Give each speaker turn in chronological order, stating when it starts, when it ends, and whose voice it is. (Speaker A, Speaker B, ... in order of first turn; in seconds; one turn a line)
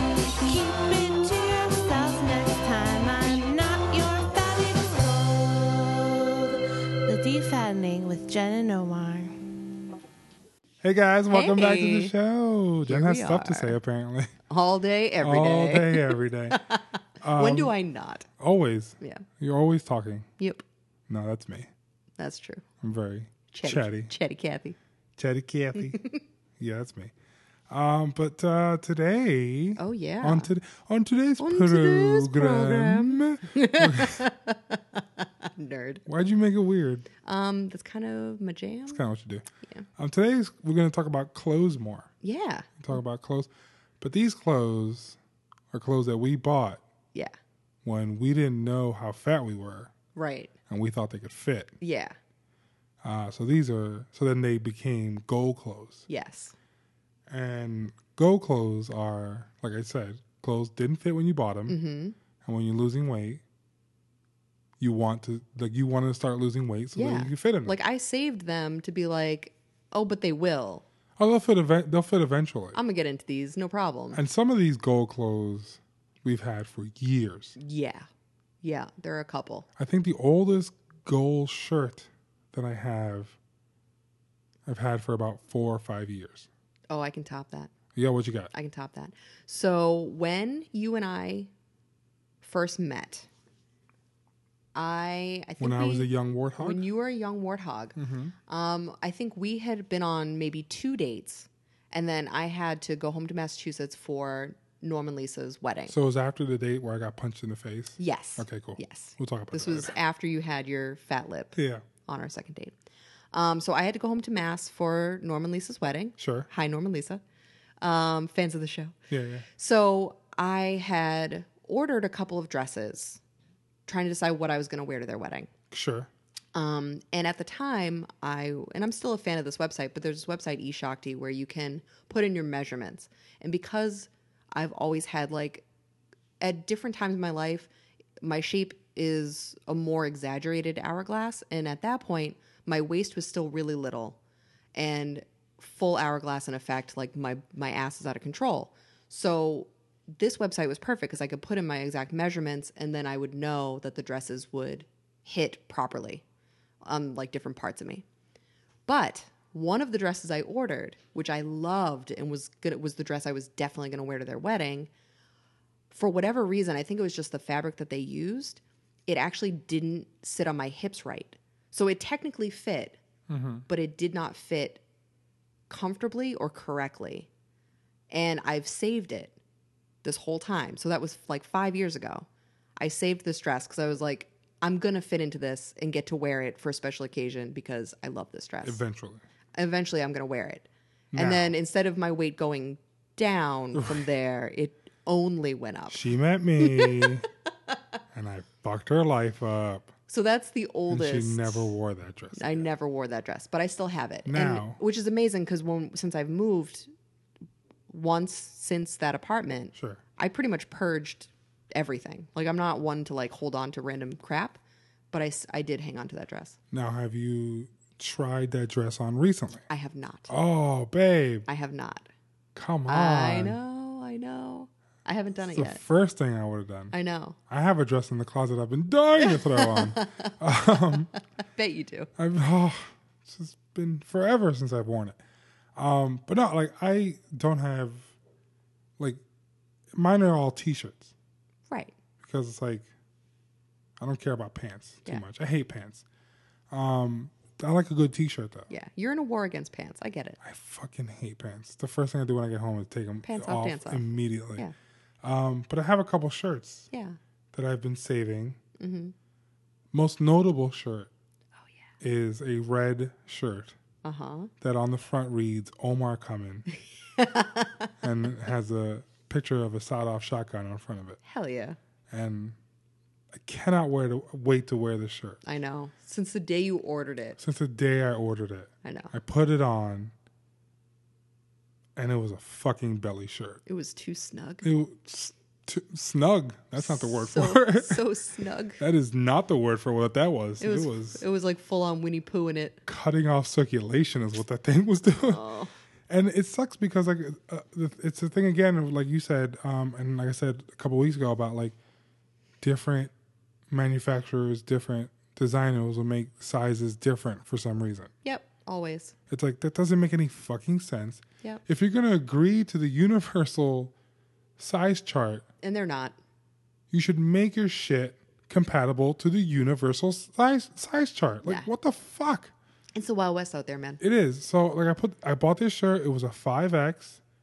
Speaker A: 0.4-9.4
Speaker B: 10.8-14.3
Speaker C: 11.3-12.1
Speaker C: 12.9-13.8
Speaker C: 14.5-18.3
Speaker B: 15.2-16.6
Speaker B: 17.2-17.8
Speaker B: 18.4-20.3
Speaker B: 21.1-21.7
Speaker C: 22.2-22.6
Speaker B: 22.8-24.1
Speaker C: 23.5-24.8
Speaker B: 25.2-26.0
Speaker C: 25.8-26.2
Speaker B: 26.6-27.1
Speaker B: 27.7-34.2
Speaker C: 29.8-30.5
Speaker C: 31.4-36.0
Speaker B: 36.1-37.1
Speaker C: 37.2-39.0
Speaker B: 38.9-39.5
Speaker B: 40.0-42.1
Speaker C: 42.2-42.8
Speaker B: 42.8-45.2
Speaker B: 45.7-46.8
Speaker B: 47.8-49.9
Speaker C: 50.1-50.5
Speaker B: 50.7-51.8
Speaker C: 51.8-52.1
Speaker B: 53.0-56.0
Speaker C: 56.1-56.5
Speaker B: 57.3-61.8
Speaker C: 61.7-62.2
Speaker B: 62.4-63.4
Speaker B: 64.8-67.8
Speaker C: 67.0-70.8
Speaker B: 71.2-72.8
Speaker C: 72.7-74.2
Speaker B: 74.1-77.6
Speaker C: 77.6-78.1
Speaker C: 78.6-79.7
Speaker B: 79.8-83.4
Speaker B: 84.7-86.5
Speaker C: 86.9-87.7
Speaker B: 88.0-88.5
Speaker C: 88.5-91.5
Speaker C: 92.4-93.3
Speaker C: 94.8-98.0
Speaker B: 95.6-96.8
Speaker B: 98.0-98.3
Speaker C: 98.5-106.0
Speaker B: 105.9-109.9
Speaker C: 108.0-112.7
Speaker B: 111.5-111.8
Speaker C: 113.3-117.2
Speaker B: 116.2-116.5
Speaker C: 117.8-119.0
Speaker B: 119.1-119.5
Speaker C: 119.6-123.2
Speaker C: 123.9-125.5
Speaker B: 125.7-126.1
Speaker C: 126.5-135.7
Speaker C: 136.4-137.7
Speaker C: 138.2-144.2
Speaker C: 144.8-156.2
Speaker C: 156.8-158.0
Speaker C: 158.9-164.9
Speaker C: 165.9-173.0
Speaker B: 173.3-173.7
Speaker C: 173.7-174.8
Speaker C: 175.7-177.3
Speaker C: 178.1-179.3
Speaker C: 180.0-182.3
Speaker C: 182.8-188.8
Speaker B: 188.6-189.2
Speaker C: 189.6-196.0
Speaker B: 191.1-191.6
Speaker B: 193.8-194.1
Speaker B: 195.9-197.2
Speaker C: 196.6-197.2
Speaker B: 198.1-199.9
Speaker C: 200.1-201.7
Speaker B: 200.9-202.7
Speaker C: 202.3-206.9
Speaker B: 204.3-204.8
Speaker C: 207.9-214.6
Speaker B: 209.7-210.0
Speaker C: 215.1-216.6
Speaker B: 216.7-219.6
Speaker C: 219.7-220.3
Speaker B: 220.3-221.5
Speaker C: 221.5-222.1
Speaker B: 222.6-223.6
Speaker C: 222.9-225.8
Speaker B: 225.5-226.9
Speaker C: 226.9-227.4
Speaker B: 227.5-231.1
Speaker C: 229.2-230.3
Speaker C: 231.1-232.1
Speaker B: 232.2-235.2
Speaker B: 235.8-238.1
Speaker B: 239.9-241.1
Speaker C: 241.7-241.9
Speaker B: 242.2-242.9
Speaker B: 244.0-246.0
Speaker B: 246.7-248.7
Speaker C: 248.7-250.4
Speaker B: 250.4-254.7
Speaker C: 253.2-254.1
Speaker B: 255.2-256.9
Speaker C: 256.9-257.2
Speaker B: 257.5-258.6
Speaker C: 258.8-259.1
Speaker B: 259.9-261.1
Speaker B: 262.0-263.8
Speaker C: 264.0-264.5
Speaker B: 264.6-266.7
Speaker C: 267.2-267.9
Speaker B: 268.0-271.2
Speaker C: 271.3-271.8
Speaker B: 272.1-272.6
Speaker B: 273.3-275.4
Speaker C: 275.4-277.4
Speaker B: 277.4-280.1
Speaker C: 278.8-279.1
Speaker B: 282.0-283.6
Speaker C: 283.7-284.7
Speaker B: 284.6-288.0
Speaker C: 286.8-288.8
Speaker B: 288.8-291.2
Speaker C: 290.6-292.8
Speaker B: 292.9-295.4
Speaker C: 295.3-295.7
Speaker B: 296.1-301.8
Speaker B: 302.6-303.1
Speaker B: 303.7-308.1
Speaker C: 308.2-309.1
Speaker B: 309.3-313.9
Speaker B: 314.6-315.4
Speaker C: 315.6-316.2
Speaker B: 316.9-322.5
Speaker C: 321.4-321.7
Speaker C: 322.9-324.0
Speaker B: 324.0-327.2